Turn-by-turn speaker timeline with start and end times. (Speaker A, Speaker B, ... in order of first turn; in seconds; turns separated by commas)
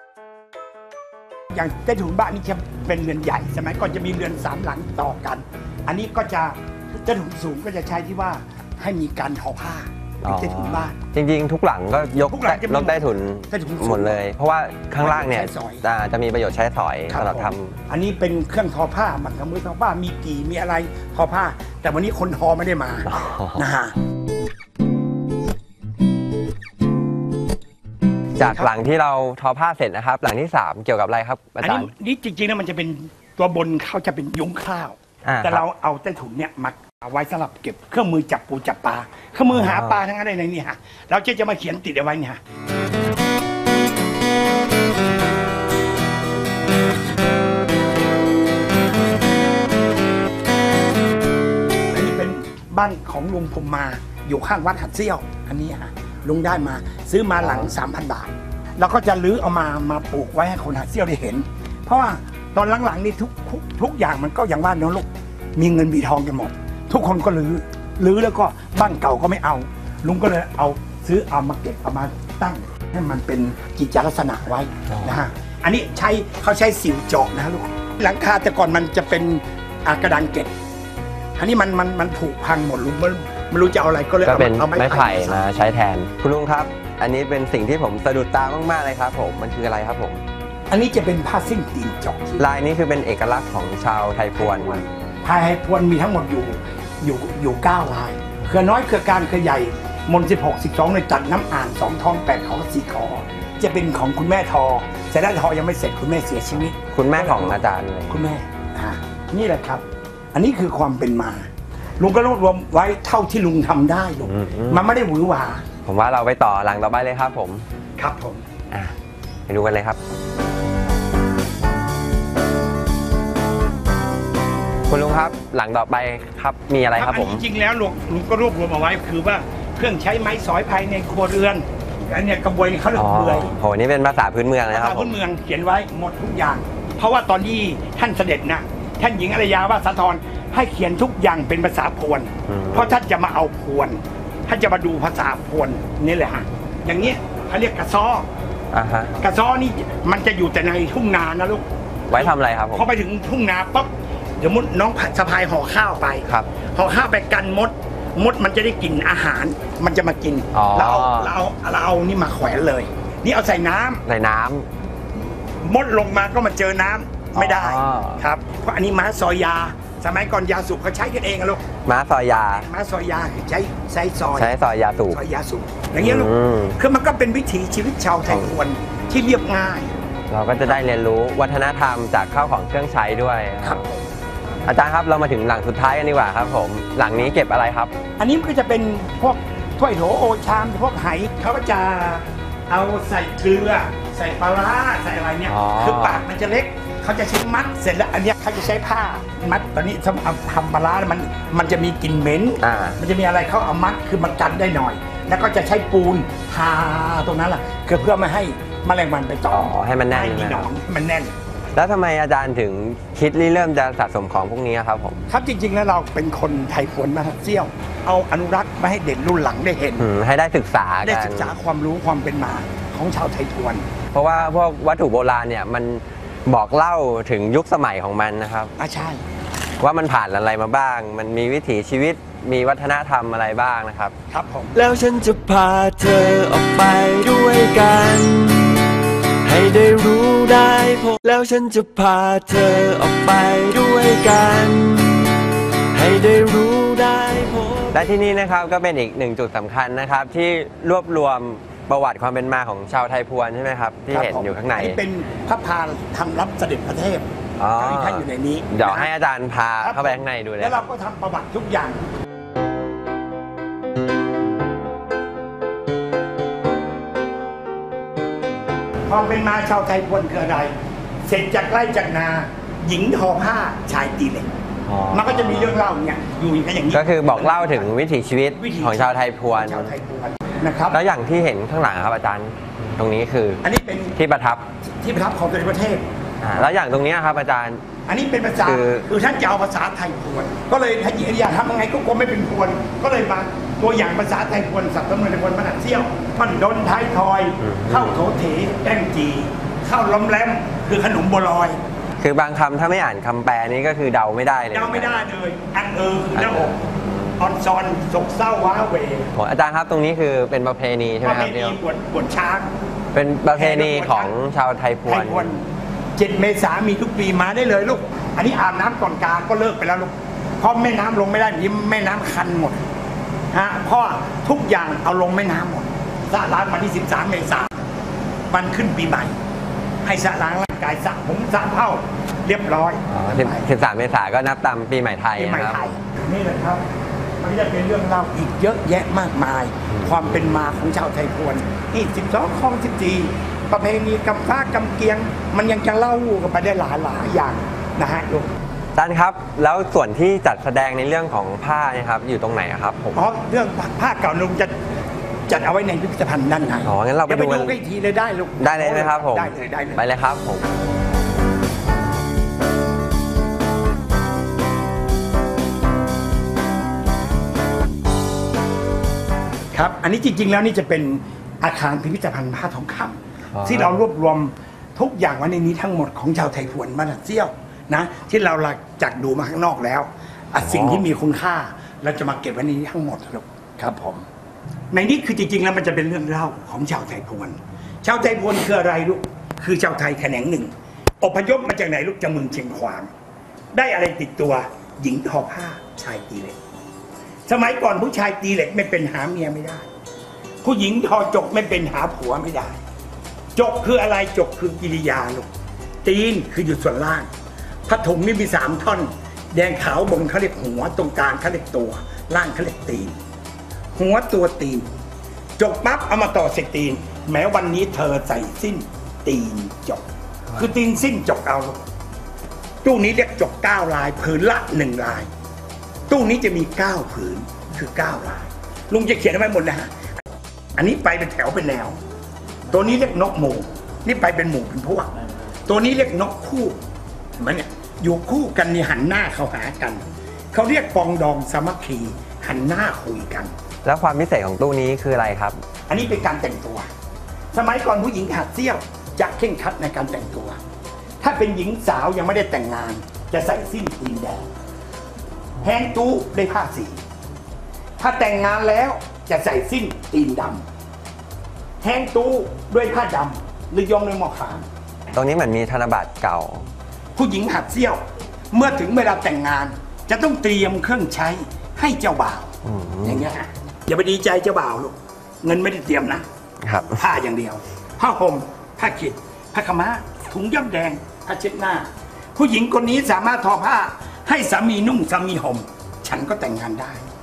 Speaker A: 1.5-11.0, Speaker B: 10.2-17.8, Speaker A: 12.2-14.2, Speaker A: 15.0-15.9, Speaker A: 17.1-23.9, Speaker B: 23.1-23.6, Speaker B: 28.4-31.9, Speaker A: 28.4-28.7, Speaker A: 31.6-42.4, Speaker B: 35.2-35.6, Speaker B: 39.5-40.0, Speaker A: 51.9-80.5, Speaker B: 57.4-57.7, Speaker B: 74.9-75.2, Speaker A: 81.4-85.4, Speaker B: 84.2-90.2, Speaker A: 90.7-92.4, Speaker B: 92.4-94.8, Speaker A: 94.4-115.7, Speaker B: 106.8-108.2, Speaker B: 114.2-114.8, Speaker B: 115.8-117.6, Speaker A: 118.0-118.4, Speaker B: 119.5-120.0, Speaker B: 124.9-127.4, Speaker A: 126.9-133.5, Speaker B: 132.9-135.1, Speaker A: 134.7-148.3, Speaker B: 142.5-142.9, Speaker B: 148.7-149.1, Speaker A: 149.2-164.0, Speaker B: 152.1-152.8, Speaker B: 160.5-161.3, Speaker B: 164.1-164.7, Speaker A: 165.6-171.7, Speaker B: 167.3-168.2, Speaker B: 171.8-172.7, Speaker A: 172.3-174.5, Speaker B: 174.3-175.2, Speaker A: 175.1-179.9, Speaker B: 176.0-176.8, Speaker B: 178.3-178.5, Speaker B: 180.3-183.9, Speaker A: 183.6-184.0, Speaker B: 184.7-187.9, Speaker A: 188.2-211.3, Speaker B: 195.5-196.2, Speaker B: 202.6-203.0, Speaker B: 209.5-210.7, Speaker B: 211.8-215.2, Speaker A: 215.3-220.1, Speaker B: 220.0-221.6, Speaker A: 221.0-223.9, Speaker B: 224.1-228.7, Speaker A: 228.8-229.2, Speaker B: 229.8-234.1, Speaker A: 234.3-234.8, Speaker C: 234.8-238.8, Speaker C: 239.4-245.3, Speaker C: 245.9-248.0, Speaker B: 247.9-255.0, Speaker A: 254.1-259.1, Speaker B: 257.6-260.9, Speaker A: 259.8-262.0, Speaker A: 269.1-270.7, Speaker A: 271.2-274.5, Speaker B: 274.9-275.8, Speaker A: 275.1-277.9, Speaker B: 276.9-279.9, Speaker A: 278.5-281.0, Speaker B: 280.9-283.6, Speaker A: 283.6-284.1, Speaker B: 284.1-284.6, Speaker A: 284.8-286.1, Speaker B: 286.4-287.8, Speaker A: 288.1-301.8, Speaker B: 288.6-289.1, Speaker B: 297.6-298.2, Speaker B: 302.2-305.3, Speaker A: 304.7-306.8, Speaker B: 306.3-307.4, Speaker A: 307.4-309.3, Speaker B: 309.3-311.8, Speaker A: 311.2-312.7, Speaker B: 313.1-315.6, Speaker A: 313.5-314.3, Speaker A: 315.1-315.6, Speaker A: 316.1-322.8, Speaker A: 323.5-327.8, Speaker A: 328.5-329.4, Speaker A: 330.0-333.6, Speaker B: 333.1-335.8, Speaker A: 335.4-336.8, Speaker A: 337.4-348.5, Speaker B: 339.9-340.2, Speaker B: 348.9-353.2, Speaker A: 353.1-354.8, Speaker A: 355.5-360.0, Speaker B: 356.9-357.8, Speaker B: 358.6-360.6, Speaker A: 369.7-384.2, Speaker B: 373.5-374.0, Speaker B: 380.6-381.1, Speaker A: 384.9-393.1, Speaker A: 393.7-396.6, Speaker A: 397.5-399.9, Speaker A: 400.6-402.8, Speaker A: 403.6-405.5, Speaker A: 406.0-407.3, Speaker A: 407.9-413.1, Speaker A: 413.9-414.9, Speaker A: 415.6-421.8, Speaker A: 422.8-425.3, Speaker A: 426.1-429.9, Speaker A: 430.8-432.0, Speaker A: 432.7-435.1, Speaker A: 435.7-436.8, Speaker A: 437.4-443.5, Speaker B: 443.8-445.6, Speaker A: 445.9-446.9, Speaker A: 447.5-450.6, Speaker A: 451.2-454.5, Speaker A: 455.6-457.0, Speaker A: 458.0-460.6, Speaker A: 461.8-464.6, Speaker B: 465.1-466.7, Speaker A: 467.1-468.0, Speaker A: 468.5-472.5, Speaker B: 472.6-473.2, Speaker A: 473.0-476.2, Speaker B: 476.6-477.0, Speaker A: 476.8-487.0